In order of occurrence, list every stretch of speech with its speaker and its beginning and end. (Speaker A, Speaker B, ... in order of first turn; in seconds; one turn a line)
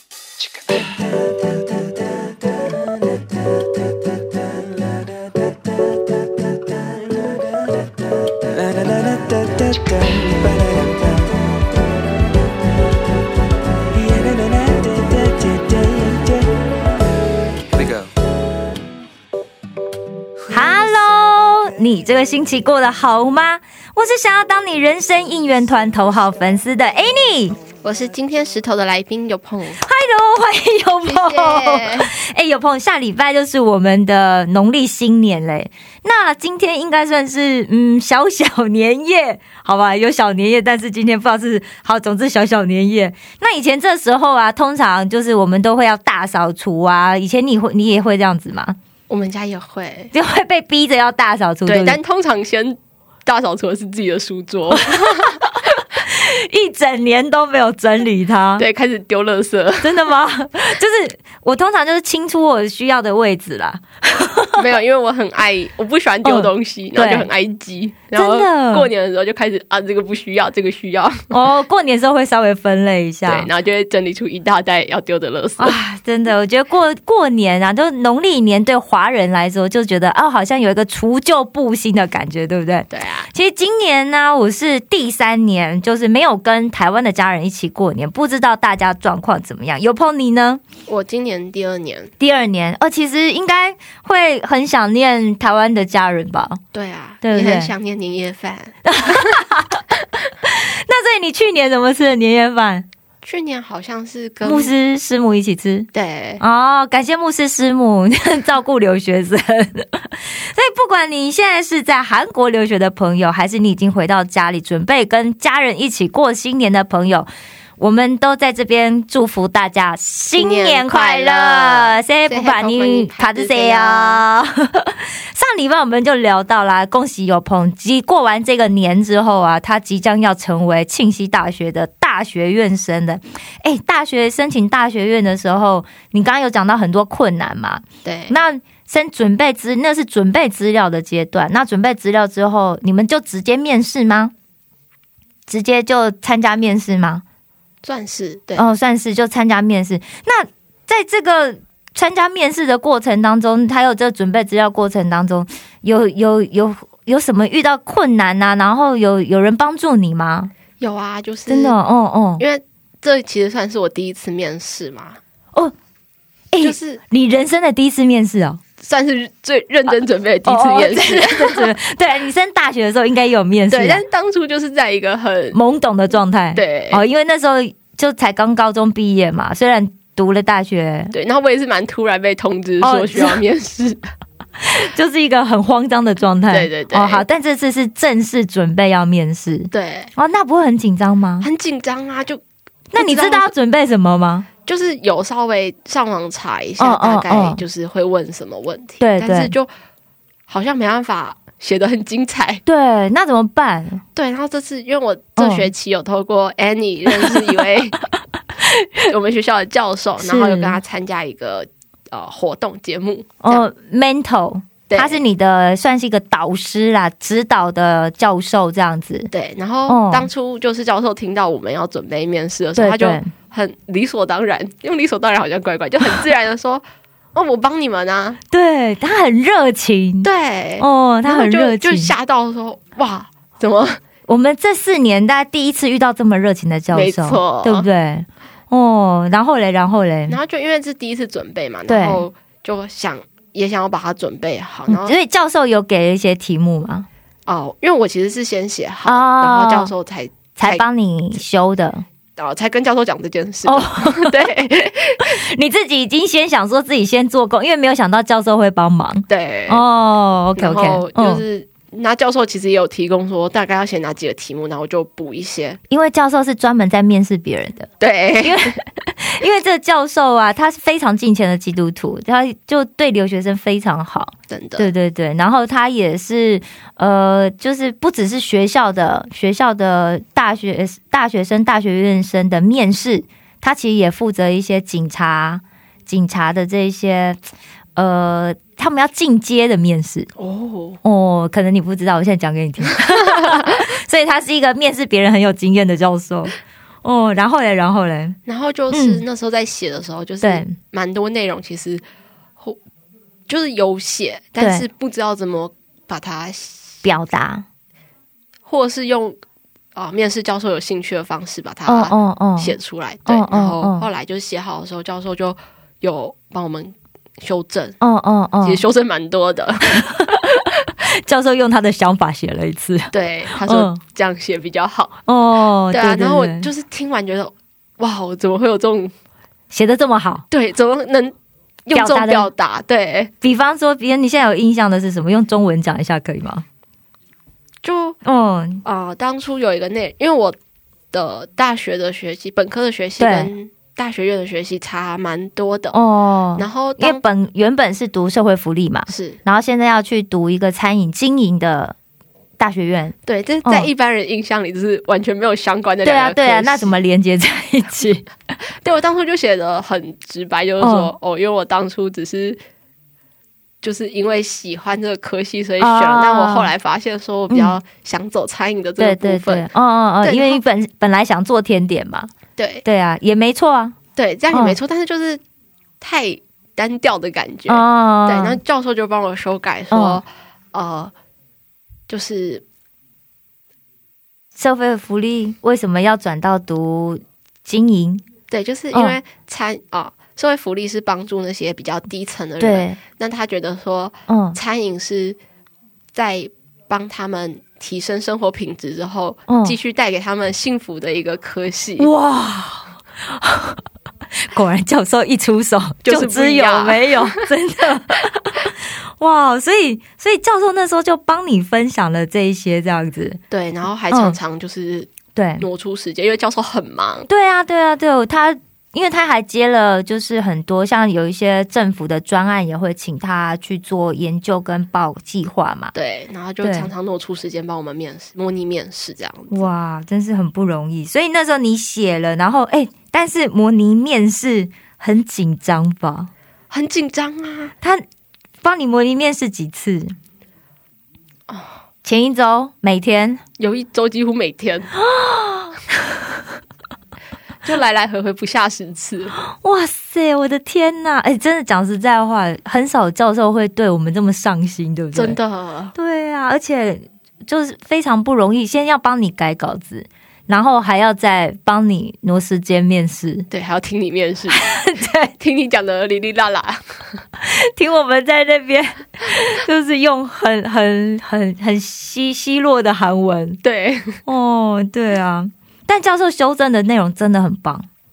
Speaker A: 0.4-2.4
Speaker A: 3.1-3.6
Speaker A: 4.5-5.1
Speaker A: 7.1-7.7
Speaker A: 8.5-11.3
Speaker A: 13.9-16.5
Speaker A: 17.7-18.1
Speaker B: 20.5-27.6
Speaker C: 27.8-29.8
Speaker B: 29.8-48.8
Speaker C: 31.1-32.1
Speaker C: 49.1-50.1
Speaker B: 50.1-52.0
Speaker C: 51.7-55.4
Speaker B: 54.8-58.7
Speaker C: 58.6-60.0
Speaker B: 59.8-64.7
Speaker C: 64.6-71.3
Speaker B: 66.2-67.3
Speaker B: 68.1-68.9
Speaker B: 71.3-73.5
Speaker C: 73.3-75.8
Speaker B: 75.6-90.6
Speaker C: 82.9-83.3
Speaker C: 90.9-92.1
Speaker B: 92.2-96.6
Speaker C: 96.7-99.4
Speaker B: 97.2-97.7
Speaker B: 98.8-99.8
Speaker B: 100.4-102.9
Speaker C: 103.2-104.7
Speaker B: 104.4-105.9
Speaker C: 105.9-106.4
Speaker B: 106.4-144.3
Speaker C: 120.4-124.2
Speaker C: 138.1-138.4
Speaker B: 145.5-147.2
Speaker C: 147.8-148.7
Speaker B: 148.6-160.5
Speaker C: 160.8-161.8
Speaker B: 161.5-162.4
Speaker C: 162.4-165.2
Speaker B: 166.5-168.6
Speaker C: 166.6-167.0
Speaker C: 168.8-171.7
Speaker B: 170.5-174.0
Speaker C: 173.7-175.6
Speaker B: 175.5-181.1
Speaker C: 176.6-177.0
Speaker C: 181.1-184.1
Speaker B: 182.8-183.4
Speaker B: 184.6-191.5
Speaker C: 186.5-187.2
Speaker C: 189.7-190.1
Speaker C: 191.4-192.4
Speaker B: 192.9-194.5
Speaker C: 193.0-193.5
Speaker C: 194.7-199.7
Speaker B: 196.8-197.6
Speaker B: 199.0-199.5
Speaker C: 200.5-202.6
Speaker B: 202.7-204.0
Speaker C: 204.2-208.0
Speaker B: 205.4-205.7
Speaker B: 207.1-207.6
Speaker B: 208.6-209.1
Speaker C: 209.1-213.7
Speaker B: 210.2-210.8
Speaker B: 213.4-219.3
Speaker C: 214.9-215.2
Speaker C: 219.3-226.8
Speaker B: 219.9-220.3
Speaker B: 222.8-223.3
Speaker C: 227.3-228.4
Speaker B: 228.5-230.3
Speaker C: 230.2-234.0
Speaker B: 230.8-232.1
Speaker B: 234.3-240.4
Speaker C: 236.9-237.9
Speaker C: 240.3-245.2
Speaker B: 241.9-242.3
Speaker B: 244.9-247.1
Speaker C: 247.5-250.8
Speaker B: 249.1-249.9
Speaker B: 250.6-252.1
Speaker C: 252.4-255.3
Speaker B: 253.7-254.5
Speaker B: 255.2-261.4
Speaker C: 259.3-259.8
Speaker C: 260.6-265.8
Speaker B: 265.9-267.9
Speaker C: 268.0-268.8
Speaker B: 268.4-287.4
Speaker C: 274.5-274.9
Speaker B: 288.0-290.3
Speaker C: 290.4-291.0
Speaker B: 291.0-298.4
Speaker C: 293.1-293.8
Speaker C: 298.5-302.0
Speaker B: 298.9-299.2
Speaker B: 300.4-300.8
Speaker C: 303.5-307.0
Speaker B: 304.6-304.9
Speaker B: 307.0-307.7
Speaker C: 308.7-309.4
Speaker C: 309.9-318.0
Speaker B: 311.9-314.1
Speaker B: 318.0-318.8
Speaker C: 318.6-320.0
Speaker B: 319.9-324.0
Speaker C: 323.1-325.2
Speaker B: 325.3-326.7
Speaker C: 325.9-329.1
Speaker B: 329.7-330.4
Speaker C: 330.5-333.3
Speaker B: 331.9-332.5
Speaker B: 333.4-336.6
Speaker C: 337.8-338.2
Speaker B: 338.2-338.8
Speaker C: 338.9-340.6
Speaker C: 341.1-346.0
Speaker B: 343.2-343.5
Speaker B: 345.9-352.0
Speaker C: 346.6-347.2
Speaker C: 349.1-349.4
Speaker B: 352.6-353.9
Speaker C: 353.3-356.9
Speaker B: 356.0-358.3
Speaker C: 358.8-362.6
Speaker B: 360.8-361.1
Speaker C: 363.8-369.7
Speaker B: 365.8-366.7
Speaker B: 367.5-367.8
Speaker B: 369.0-372.3
Speaker C: 370.2-370.6
Speaker C: 372.6-372.8
Speaker B: 372.9-374.0
Speaker C: 374.2-375.4
Speaker B: 374.5-374.8
Speaker C: 376.0-381.1
Speaker B: 377.7-378.6
Speaker B: 379.9-380.2
Speaker C: 382.1-382.6
Speaker B: 384.6-388.2
Speaker C: 388.5-395.4
Speaker B: 392.6-393.0
Speaker B: 394.3-394.6
Speaker C: 396.1-402.1
Speaker B: 399.5-399.8
Speaker B: 402.0-403.8
Speaker B: 404.4-413.4
Speaker C: 406.0-407.5
Speaker C: 413.5-417.3
Speaker B: 414.1-414.4
Speaker B: 415.4-415.6
Speaker B: 417.3-425.9
Speaker C: 425.9-429.7
Speaker B: 426.6-426.9
Speaker B: 429.5-436.3
Speaker C: 436.7-437.7
Speaker B: 438.6-440.1
Speaker B: 442.0-443.4
Speaker C: 443.6-444.9
Speaker B: 445.0-446.2
Speaker C: 447.6-449.4
Speaker B: 449.5-455.4
Speaker C: 455.1-455.9
Speaker B: 455.9-463.5
Speaker C: 463.5-464.7
Speaker B: 464.6-465.3
Speaker C: 465.4-466.8
Speaker B: 467.4-473.6
Speaker C: 473.6-474.2
Speaker B: 474.3-477.9